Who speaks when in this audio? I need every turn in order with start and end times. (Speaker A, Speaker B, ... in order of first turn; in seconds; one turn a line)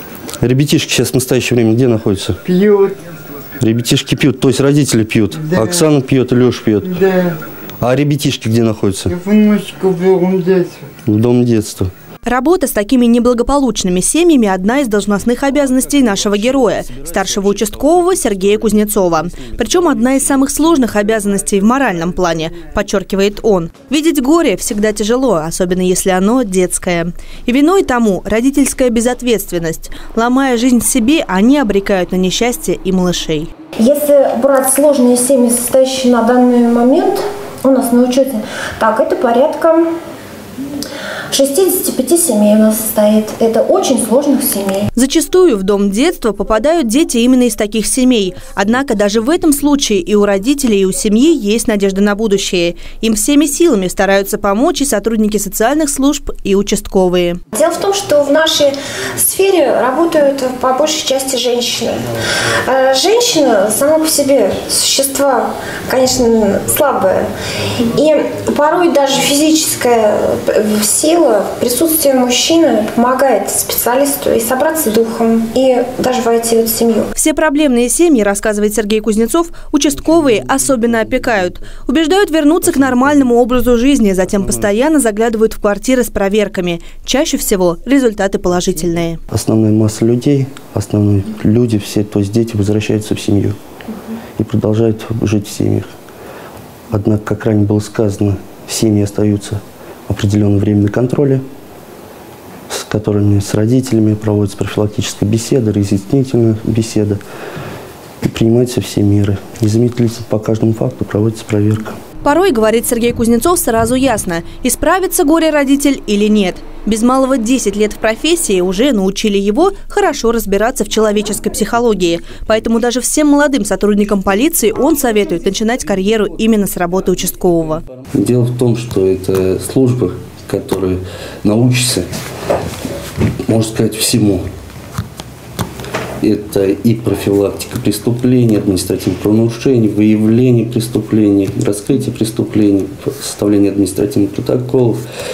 Speaker A: 0.4-2.4
Speaker B: 2.5-3.0
Speaker A: 3.6-7.0
Speaker B: 7.0-7.4
Speaker A: 7.8-9.2
Speaker B: 9.1-10.9
Speaker A: 11.1-11.9
Speaker C: 12.2-33.5
Speaker A: 19.4-20.3
Speaker D: 33.8-39.9
Speaker D: 41.3-44.9
Speaker C: 45.0-57.4
Speaker D: 57.5-67.3
Speaker D: 67.9-77.1
Speaker C: 77.2-89.2
Speaker A: 80.2-81.1
Speaker A: 82.8-83.1
Speaker A: 89.3-93.6
Speaker A: 94.4-95.9
Speaker A: 96.9-101.4
Speaker A: 102.7-107.2
Speaker A: 108.2-112.0
Speaker C: 112.2-127.8
Speaker A: 128.1-132.1
Speaker A: 133.5-134.4
Speaker A: 136.2-145.0